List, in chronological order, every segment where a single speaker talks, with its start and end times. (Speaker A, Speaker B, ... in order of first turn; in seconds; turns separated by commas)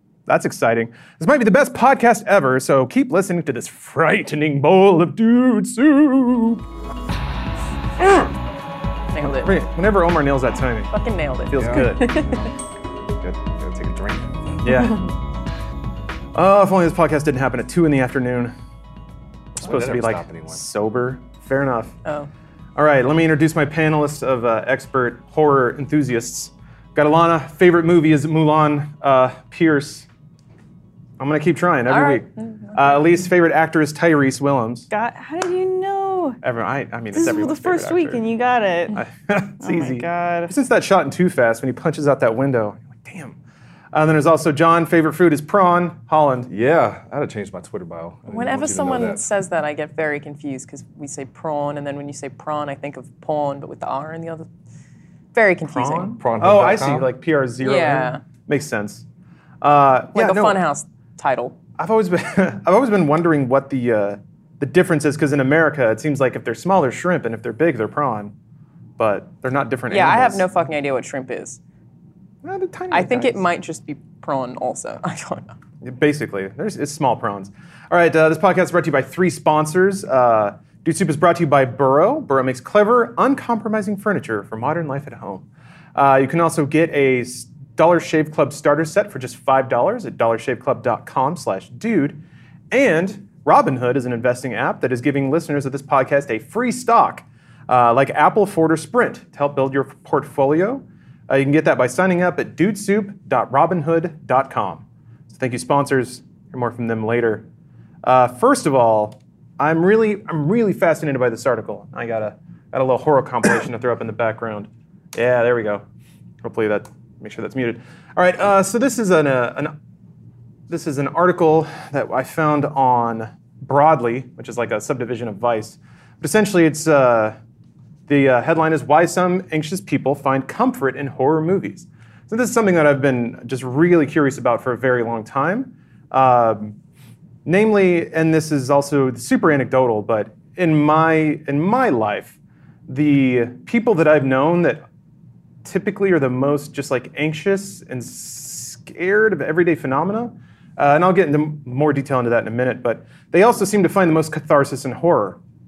Speaker A: 0.3-6.6, Speaker A: 8.0-8.3, Speaker B: 9.1-9.6, Speaker A: 9.4-10.9, Speaker B: 10.9-12.5, Speaker A: 11.5-12.2, Speaker C: 11.6-12.5, Speaker C: 13.1-14.6, Speaker A: 14.6-15.1, Speaker A: 16.3-18.5, Speaker A: 19.6-21.9, Speaker C: 19.6-20.6, Speaker B: 22.0-22.3, Speaker A: 22.8-30.1, Speaker A: 31.2-34.9, Speaker B: 31.9-33.1, Speaker D: 34.9-36.4, Speaker A: 36.4-38.2, Speaker D: 37.1-39.0, Speaker A: 38.9-43.4, Speaker D: 39.6-40.5, Speaker A: 43.9-46.5, Speaker C: 46.5-49.2, Speaker B: 48.3-54.5, Speaker B: 55.3-56.1, Speaker A: 55.6-59.0, Speaker C: 56.2-57.1, Speaker B: 57.6-58.2, Speaker A: 59.6-60.6, Speaker B: 60.1-61.6, Speaker A: 61.8-68.3, Speaker A: 69.0-70.5, Speaker B: 69.9-71.6, Speaker A: 72.4-73.4, Speaker B: 72.9-75.5, Speaker A: 75.8-107.4, Speaker A: 108.0-115.8, Speaker A: 116.4-119.7, Speaker A: 120.7-127.4, Speaker A: 128.1-136.8, Speaker A: 137.4-142.3, Speaker A: 142.9-144.8, Speaker A: 145.6-155.4